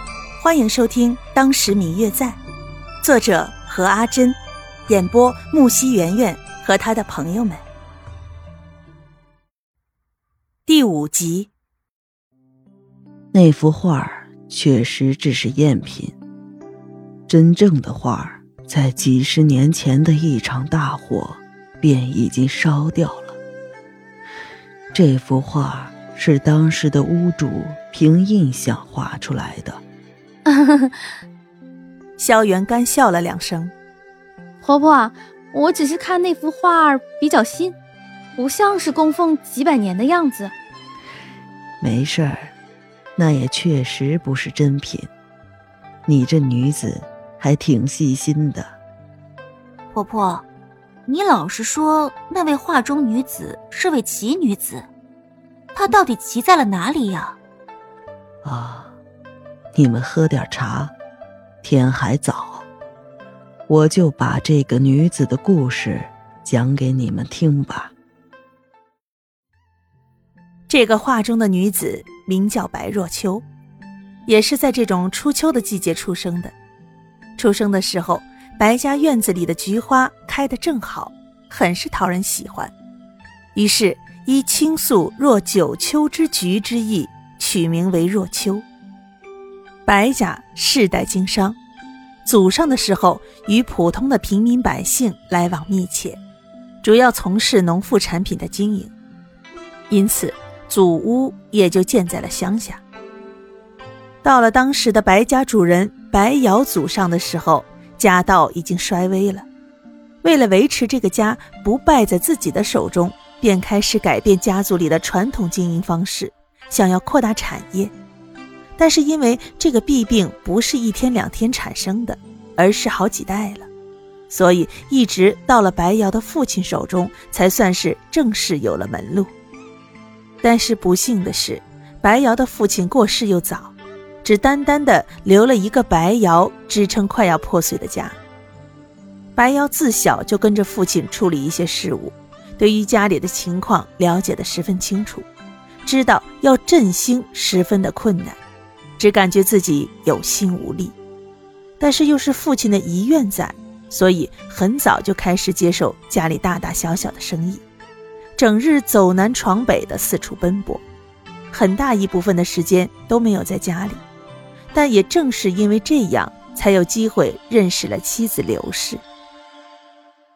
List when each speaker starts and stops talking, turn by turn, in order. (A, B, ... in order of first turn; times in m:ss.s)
0:00.4-0:02.4 A
0:03.0-0:07.6 A
0:10.7-0:11.5 A
0:13.3-0:16.2 B
0:17.3-0:23.4 B
0:24.9-0:29.8 B
0:30.5-0:31.0 C
0:32.2-0:33.7 A
0:34.6-0:37.8 C
0:38.4-0:40.5 C
0:41.8-0:42.5 B
0:43.2-0:45.1 B
0:46.1-0:48.8 B
0:49.9-0:50.4 D
0:51.1-0:54.9 D
0:55.8-0:57.4 D
0:58.4-0:59.0 B
0:59.7-1:01.0 B
1:01.6-1:02.7 B
1:03.7-1:07.9 B
1:10.7-1:13.4 A
1:14.3-1:16.6 A
1:17.4-1:22.7 A
1:23.6-1:28.7 A
1:29.9-1:31.6 A
1:32.2-1:36.2 A
1:36.8-1:38.9 A
1:39.9-1:42.8 A
1:44.2-1:49.5 A
1:50.2-1:57.9 A
1:58.8-2:03.7 A
2:04.3-2:09.3 A
2:10.4-2:13.7 A
2:14.2-2:18.2 A
2:19.4-2:25.3 A
2:25.8-2:28.4 A
2:29.0-2:31.0 A
2:31.8-2:37.6 A
2:38.4-2:40.8 A
2:41.5-2:44.0 A
2:44.7-2:49.0 A